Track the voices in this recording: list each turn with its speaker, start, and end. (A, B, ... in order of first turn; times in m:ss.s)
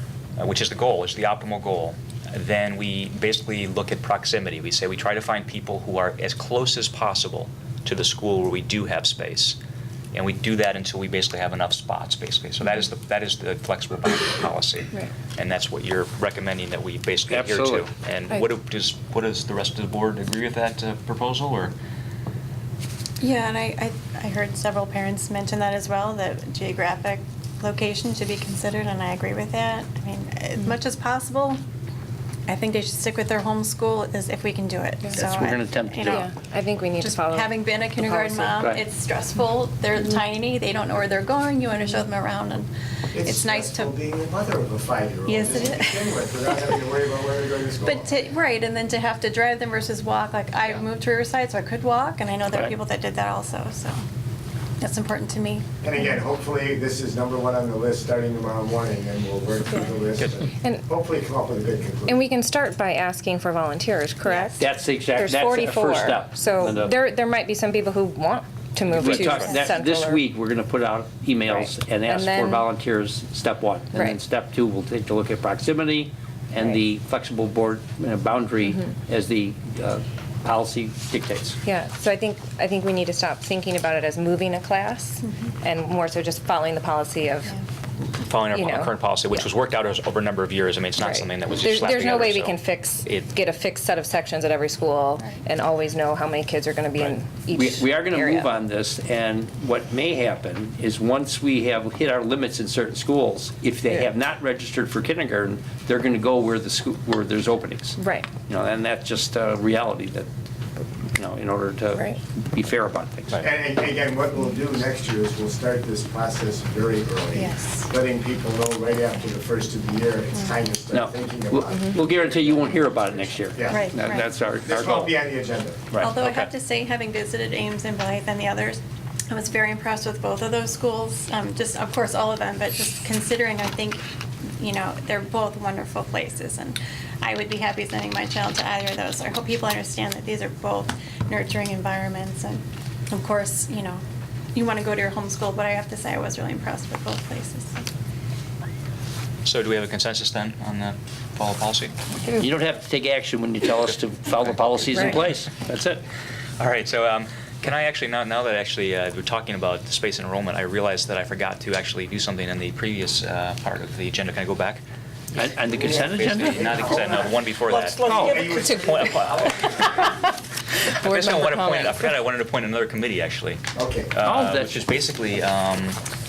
0:00.4-0:09.6 A
0:10.1-0:21.7 A
0:17.3-0:17.8 B
0:23.2-0:31.6 C
0:32.5-0:36.3 C
0:35.1-0:36.2 B
0:36.1-0:38.7 D
0:37.0-0:42.7 C
0:43.1-0:48.1 E
0:43.2-0:43.9 C
0:45.3-0:46.1 C
0:47.8-0:54.0 C
0:54.8-0:55.7 C
0:55.8-1:02.2 E
1:02.0-1:10.2 D
1:04.6-1:06.9 B
1:08.9-1:21.6 B
1:11.5-1:12.6 D
1:21.6-1:27.6 D
1:25.2-1:25.5 C
1:28.2-1:33.3 A
1:28.4-1:29.5 D
1:31.0-1:38.5 D
1:37.0-1:53.4 B
1:48.0-1:48.3 D
1:53.4-2:02.8 E
1:57.3-1:57.9 C
2:00.9-2:05.2 B
2:03.5-2:03.9 E
2:03.7-2:04.3 C
2:04.6-2:05.9 E
2:05.9-2:06.5 B
2:06.0-2:14.0 C
2:14.6-2:24.0 C
2:24.5-2:27.9 C
2:29.4-2:31.9 A
2:32.3-2:36.0 B
2:36.6-2:44.8 A
2:45.3-2:47.0 B
2:45.7-2:50.1 A
2:45.8-2:47.4 E
2:47.9-2:50.3 D
2:48.0-2:50.1 E
2:48.0-2:48.4 B
2:50.8-2:52.2 D
2:50.9-2:56.0 A
2:53.7-2:54.1 E
2:54.2-2:54.8 B